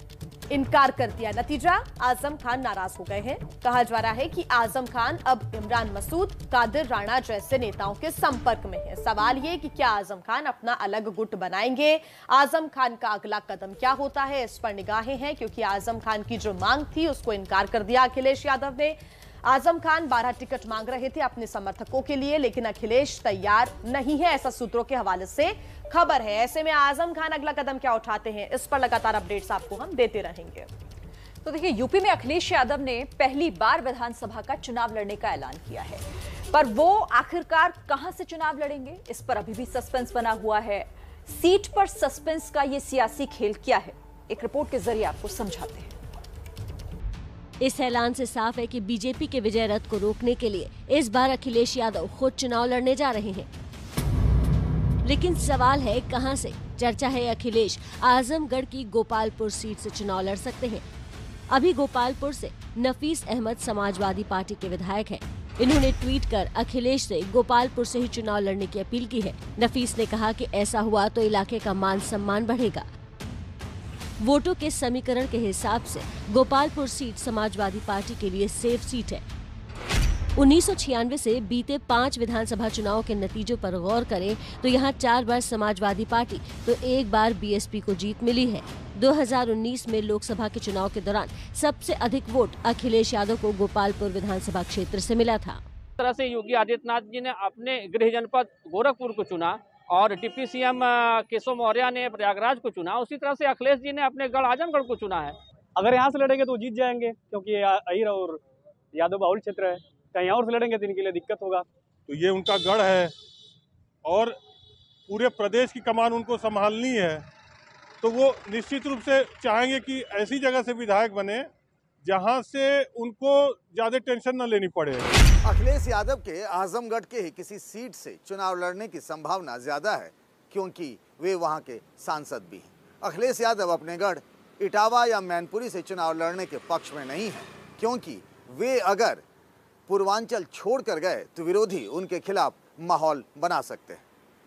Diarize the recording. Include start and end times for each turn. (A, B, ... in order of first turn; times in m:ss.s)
0:00.5-0:30.7 A
0:31.4-0:45.9 B
0:47.6-0:53.5 C
0:55.0-1:00.8 C
1:01.5-1:12.8 C
1:14.2-1:19.2 C
1:20.4-1:35.6 C
1:36.0-1:45.4 D
1:45.8-1:48.4 E
1:48.9-1:51.6 E
1:52.1-1:53.1 F
1:54.0-1:54.4 F
1:55.1-1:57.2 F
1:58.0-2:01.5 F
2:02.0-2:05.1 F
2:05.4-2:19.2 G
2:19.9-2:24.0 G